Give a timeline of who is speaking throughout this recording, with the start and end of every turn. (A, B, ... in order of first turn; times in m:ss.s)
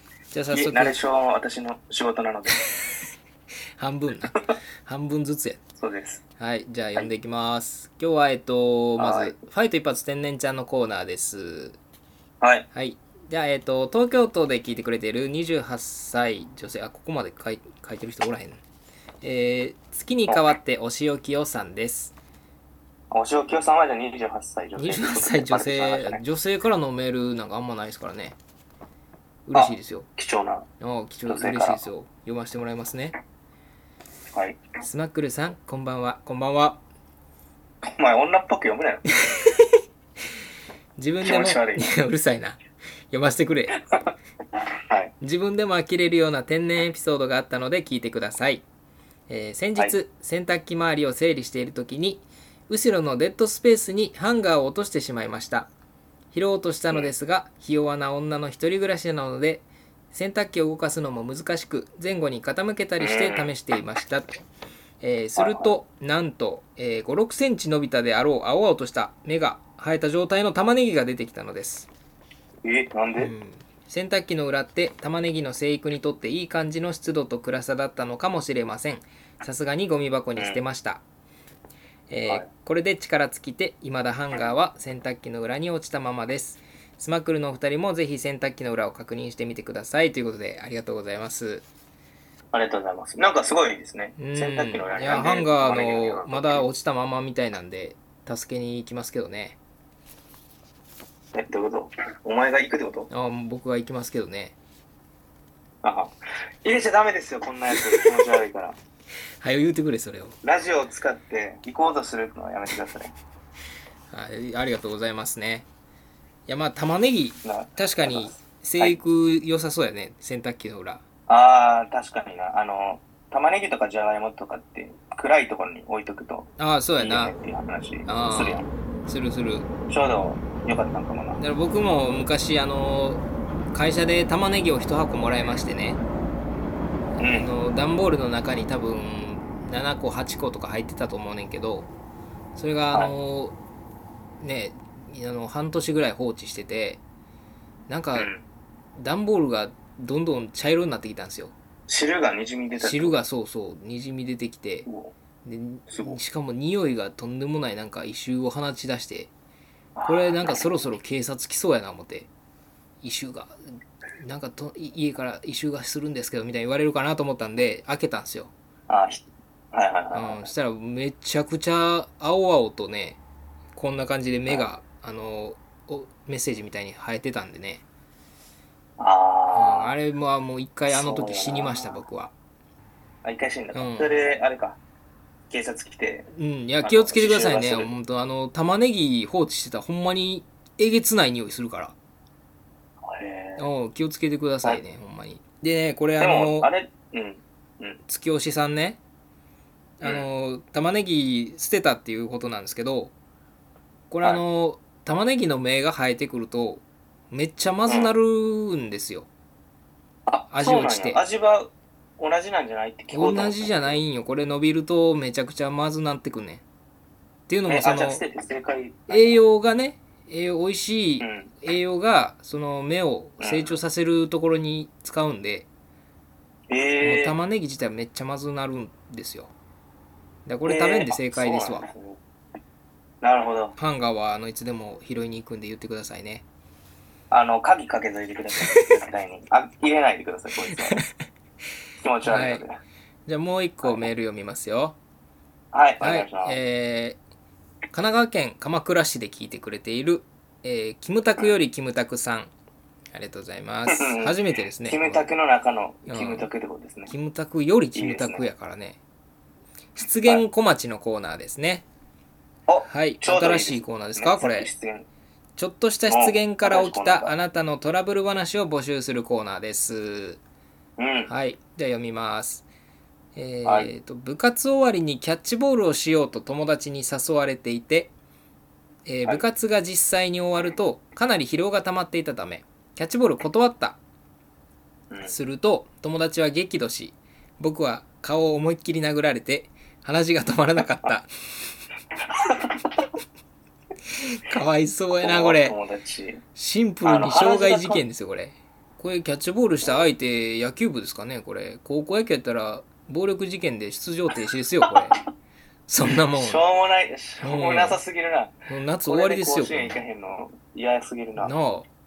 0:00.3-0:01.0 A
0:00.5-0:02.7 B
0:03.8-0:05.6 A
0:05.8-0:06.2 B
0:06.4-0:11.8 A
0:09.0-0:09.3 B
0:12.4-0:12.7 B
0:12.7-0:18.6 A
0:19.2-0:22.1 A
0:23.1-0:26.2 B
0:24.8-0:28.4 A
0:29.4-0:30.1 A
0:29.5-0:30.7 B
0:30.8-0:33.2 A
0:31.3-0:31.8 B
0:34.3-0:34.6 B
0:34.8-0:36.8 A
0:37.9-0:39.1 B
0:39.3-0:39.7 A
0:41.0-0:42.6 A
0:41.2-0:41.9 B
0:43.1-0:43.8 A
0:45.2-0:48.6 A
0:49.3-0:55.7 A
0:56.3-1:04.3 A
1:03.0-1:03.5 B
1:05.0-1:11.9 A
1:05.4-1:05.7 B
1:12.6-1:13.3 B
1:13.2-1:21.0 A
1:20.4-1:20.6 B
1:22.1-1:31.6 A
1:32.5-1:36.7 B
1:34.2-1:39.6 A
1:41.3-1:43.1 B
1:43.1-1:44.5 A
1:45.8-1:46.1 B
1:46.6-1:48.8 B
1:49.4-1:50.4 A
1:50.4-1:53.1 B
1:54.1-1:55.7 A
1:56.5-2:01.0 A
1:57.4-1:59.0 B
2:01.3-2:08.7 B
2:06.6-2:07.3 A
2:08.0-2:09.7 A
2:09.9-2:11.4 B
2:11.4-2:16.0 A
2:17.2-2:17.5 B
2:17.3-2:21.9 A
2:22.5-2:23.6 A
2:24.4-2:27.0 A
2:27.9-2:28.3 A
2:28.1-2:28.4 B
2:29.0-2:31.5 A
2:31.9-2:33.2 B
2:32.8-2:34.8 A
2:34.8-2:35.1 B
2:35.4-2:39.3 A
2:35.9-2:36.2 B
2:40.0-2:40.7 B
2:40.1-2:42.3 A
2:43.0-2:43.6 A
2:44.2-2:48.5 A
2:48.9-2:50.5 B
2:50.1-2:53.2 A
2:53.8-2:57.8 A
2:59.0-2:59.9 B
2:59.5-3:02.3 A
3:00.9-3:02.0 B
3:03.2-3:04.8 B
3:03.7-3:04.1 A
3:05.5-3:06.3 B
3:06.3-3:11.9 A
3:06.8-3:07.9 B
3:13.0-3:13.6 B
3:13.6-3:16.7 A
3:16.2-3:18.0 B
3:18.1-3:19.0 A
3:20.0-3:23.1 A
3:24.1-3:29.3 A
3:27.9-3:28.1 B
3:30.3-3:34.0 B
3:30.5-3:31.2 A
3:33.1-3:36.6 A
3:37.5-3:38.2 A
3:37.7-3:39.4 B
3:39.1-3:45.7 A
3:41.2-3:41.5 B
3:43.4-3:43.8 B
3:46.7-3:47.4 B
3:47.0-3:49.5 A
3:50.4-3:51.9 A
3:50.6-3:52.2 B
3:53.2-3:53.8 B
3:53.8-3:56.4 A
3:57.3-4:01.0 B
4:02.0-4:02.7 B
4:02.2-4:02.6 A
4:03.3-4:05.0 A
4:05.7-4:06.6 B
4:06.0-4:07.2 A
4:07.9-4:12.5 A
4:13.1-4:15.3 A
4:13.9-4:17.1 B
4:16.1-4:16.5 A
4:17.1-4:19.0 A
4:17.9-4:18.5 B
4:19.9-4:21.8 A
4:22.7-4:25.0 B
4:22.8-4:24.7 A
4:25.6-4:30.4 A
4:26.1-4:27.3 B
4:31.0-4:31.3 B
4:31.3-4:32.6 A
4:33.3-4:38.1 A
4:33.6-4:33.9 B
4:39.0-4:44.0 A
4:45.2-4:51.3 A
4:52.3-4:52.8 B
4:54.3-4:55.8 A
4:55.2-4:56.4 B
4:56.5-5:05.2 A
4:57.0-4:58.0 B
5:04.9-5:05.2 B
5:05.9-5:06.6 A
5:06.3-5:08.5 B
5:07.4-5:08.0 A
5:08.7-5:10.0 A
5:09.0-5:11.5 B
5:11.4-5:11.9 A